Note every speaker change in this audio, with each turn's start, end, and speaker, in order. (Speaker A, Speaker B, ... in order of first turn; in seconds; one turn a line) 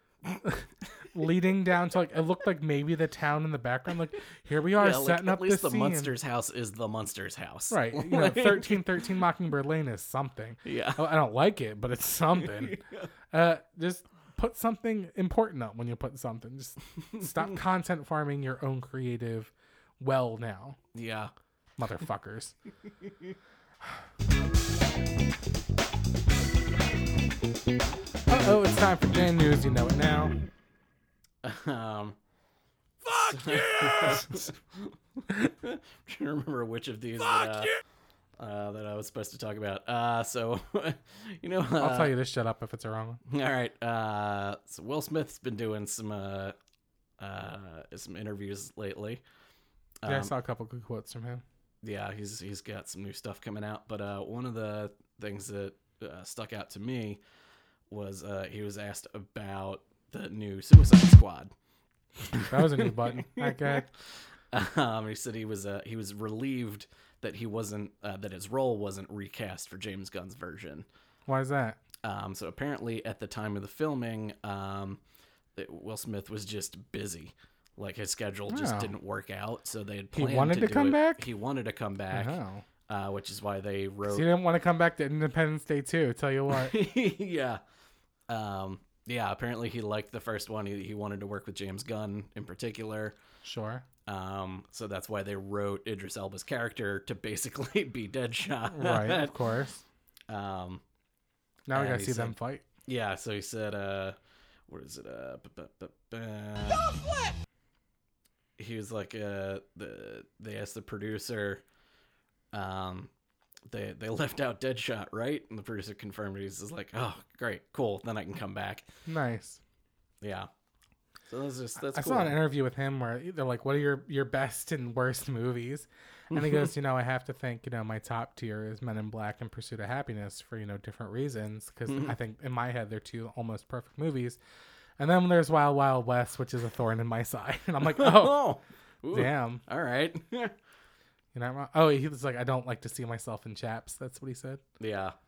Speaker A: 0.3-6.1
Speaker B: 4.8-9.1
Speaker A: 7.7-12.8
Speaker B: 10.6-11.0
Speaker B: 12.4-13.1
Speaker A: 13.3-20.8
Speaker B: 17.0-17.4
Speaker B: 20.9-21.3
Speaker A: 21.8-22.6
Speaker A: 28.3-30.3
Speaker B: 31.4-32.1
Speaker B: 33.1-37.8
Speaker A: 34.0-34.4
Speaker B: 38.4-42.1
Speaker A: 41.8-43.2
Speaker B: 43.3-46.5
Speaker B: 47.2-49.2
Speaker B: 50.0-50.3
Speaker A: 50.0-51.4
Speaker B: 51.8-57.2
Speaker B: 57.9-61.5
Speaker B: 62.3-63.9
Speaker A: 62.5-63.9
Speaker B: 64.5-70.8
Speaker A: 71.3-71.8
Speaker B: 72.0-75.0
Speaker B: 75.5-84.3
Speaker A: 78.5-78.9
Speaker A: 80.1-81.2
Speaker A: 82.1-82.6
Speaker A: 84.1-86.8
Speaker B: 86.5-87.6
Speaker B: 88.3-93.2
Speaker A: 93.4-93.8
Speaker B: 94.1-99.3
Speaker A: 98.7-99.8
Speaker B: 100.3-100.8
Speaker A: 101.7-102.6
Speaker B: 101.7-102.3
Speaker B: 102.9-104.2
Speaker B: 104.7-107.0
Speaker B: 108.6-111.6
Speaker B: 112.5-113.1
Speaker B: 113.7-118.8
Speaker A: 119.0-119.6
Speaker B: 120.2-120.5
Speaker B: 121.3-122.4
Speaker A: 121.8-134.4
Speaker B: 126.3-126.7
Speaker B: 131.9-132.1
Speaker A: 135.0-138.4
Speaker B: 137.8-140.5
Speaker A: 139.1-139.6
Speaker A: 141.3-144.6
Speaker B: 144.8-145.1